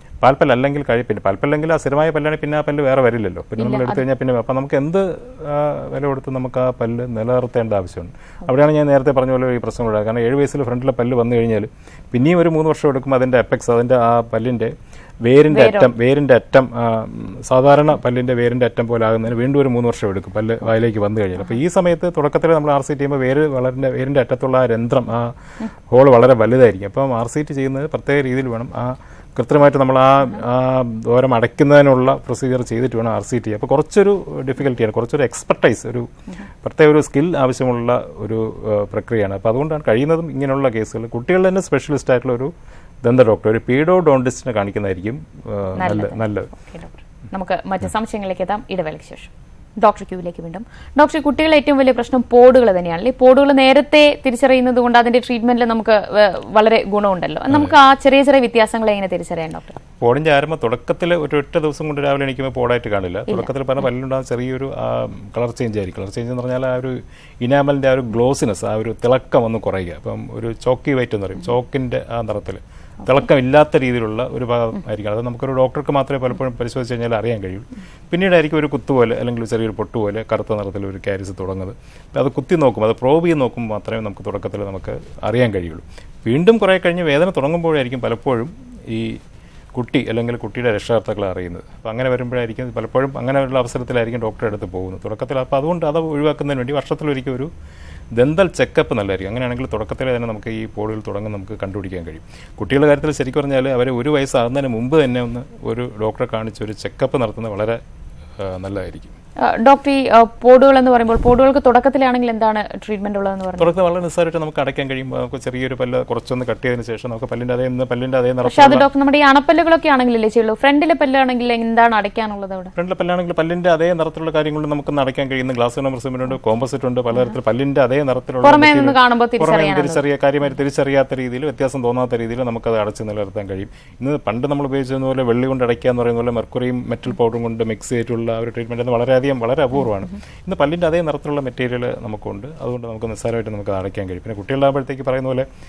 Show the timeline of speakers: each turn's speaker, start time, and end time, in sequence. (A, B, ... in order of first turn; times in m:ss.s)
0:00.2-0:25.3 A
0:03.6-0:04.0 B
0:15.5-0:15.9 B
0:25.9-0:36.1 A
0:36.6-0:42.5 A
0:43.0-0:46.5 A
0:45.8-0:59.8 B
1:00.0-1:29.2 A
1:29.7-1:37.5 A
1:38.2-1:47.8 A
1:48.4-1:49.1 A
1:49.4-1:53.7 B
1:53.6-1:58.8 A
1:58.4-2:02.7 B
2:02.8-2:25.4 A
2:08.4-2:10.0 B